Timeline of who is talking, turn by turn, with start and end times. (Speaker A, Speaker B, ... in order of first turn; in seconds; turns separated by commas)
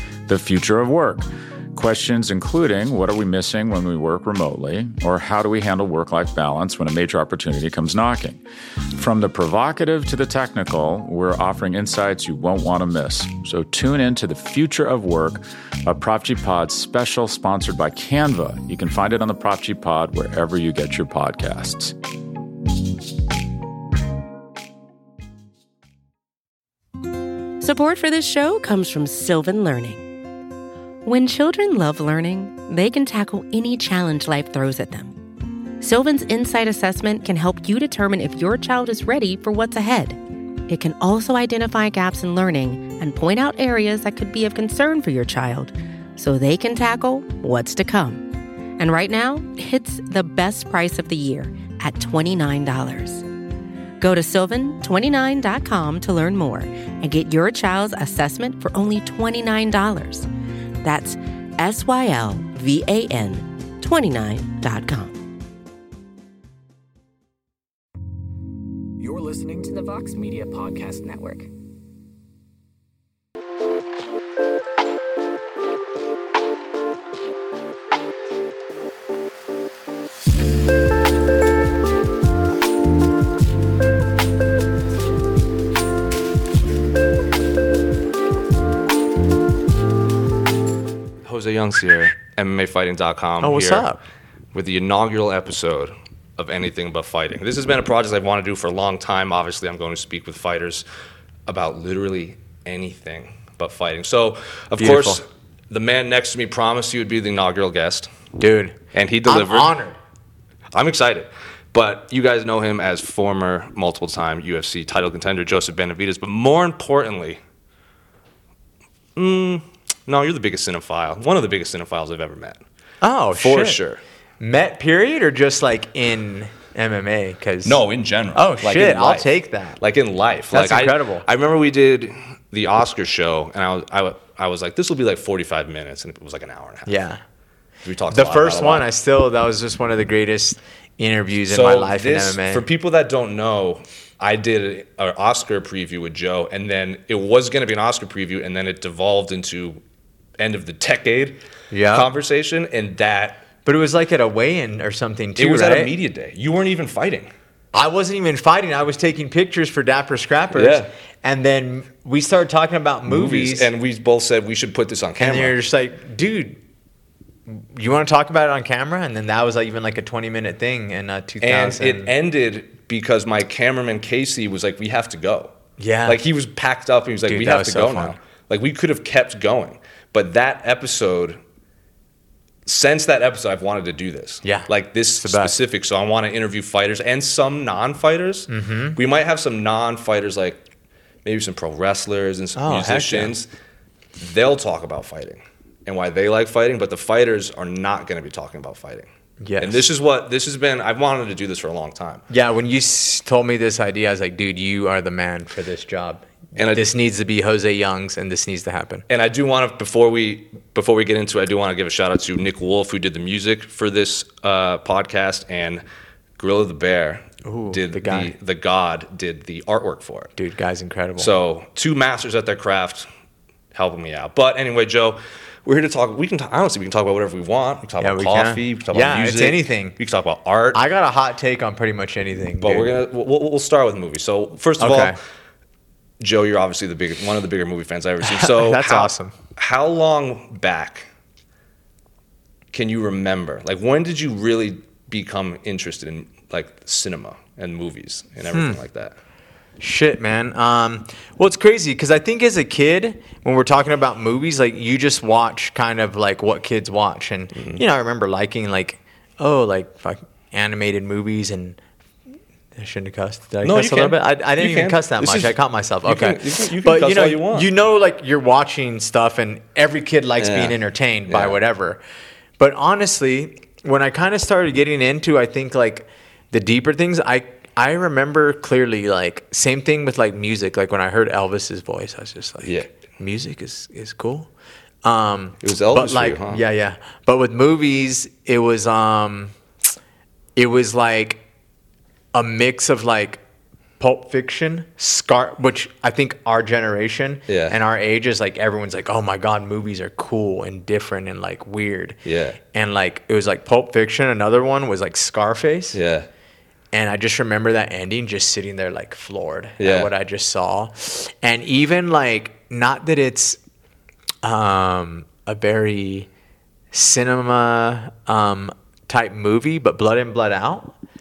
Speaker A: 0.3-8.4, Speaker A: 8.9-21.9, Speaker B: 27.6-30.0, Speaker B: 31.0-35.2, Speaker B: 35.8-53.2, Speaker B: 54.0-60.3, Speaker B: 60.8-65.2, Speaker C: 69.0-71.5, Speaker D: 91.2-93.9, Speaker E: 93.4-94.0, Speaker D: 94.5-100.8, Speaker D: 101.5-108.1, Speaker E: 104.8-105.2, Speaker E: 108.4-110.0, Speaker D: 108.9-109.8, Speaker D: 110.7-117.4, Speaker D: 119.2-122.6, Speaker E: 123.0-123.8, Speaker D: 123.3-124.0, Speaker E: 124.4-127.8, Speaker D: 127.6-136.9, Speaker E: 128.3-129.8, Speaker E: 130.5-131.3, Speaker E: 136.9-137.2, Speaker D: 137.8-138.9, Speaker E: 138.1-142.7, Speaker D: 141.5-149.8, Speaker D: 150.4-153.5, Speaker E: 151.7-152.1, Speaker E: 153.7-155.9, Speaker D: 155.4-157.3, Speaker E: 157.7-163.7, Speaker D: 160.5-160.9, Speaker D: 163.1-165.6, Speaker E: 165.2-166.6, Speaker E: 167.5-172.1, Speaker D: 171.4-175.5, Speaker E: 175.8-176.2, Speaker D: 176.1-181.4, Speaker E: 177.3-178.2, Speaker D: 182.7-190.6, Speaker E: 184.4-185.6, Speaker E: 188.5-189.0, Speaker D: 191.2-193.5, Speaker E: 192.6-193.3, Speaker D: 194.2-199.1, Speaker E: 199.4-199.9, Speaker D: 199.6-202.2, Speaker E: 202.3-209.1, Speaker D: 206.6-206.8, Speaker D: 209.1-215.8, Speaker D: 216.4-220.3, Speaker E: 217.4-218.3, Speaker E: 220.4-221.3, Speaker D: 221.2-223.1, Speaker D: 223.7-230.8, Speaker E: 228.0-230.0, Speaker E: 230.7-233.0, Speaker D: 232.6-235.2, Speaker E: 234.8-235.2, Speaker D: 236.2-241.1, Speaker E: 238.2-239.3, Speaker D: 242.7-249.2, Speaker E: 248.5-248.8, Speaker E: 249.8-261.8, Speaker D: 257.6-257.8, Speaker E: 262.8-272.0, Speaker D: 263.6-267.7, Speaker D: 270.4-270.8, Speaker D: 271.3-271.6, Speaker E: 272.6-284.5, Speaker E: 285.0-289.6, Speaker D: 285.6-286.6, Speaker E: 290.6-291.4, Speaker E: 292.3-293.4, Speaker E: 294.0-302.2, Speaker D: 297.5-297.8, Speaker D: 302.2-302.6, Speaker E: 302.7-306.0, Speaker D: 305.9-306.3, Speaker E: 306.9-313.6, Speaker D: 309.8-310.1, Speaker E: 314.4-316.3, Speaker E: 316.9-320.9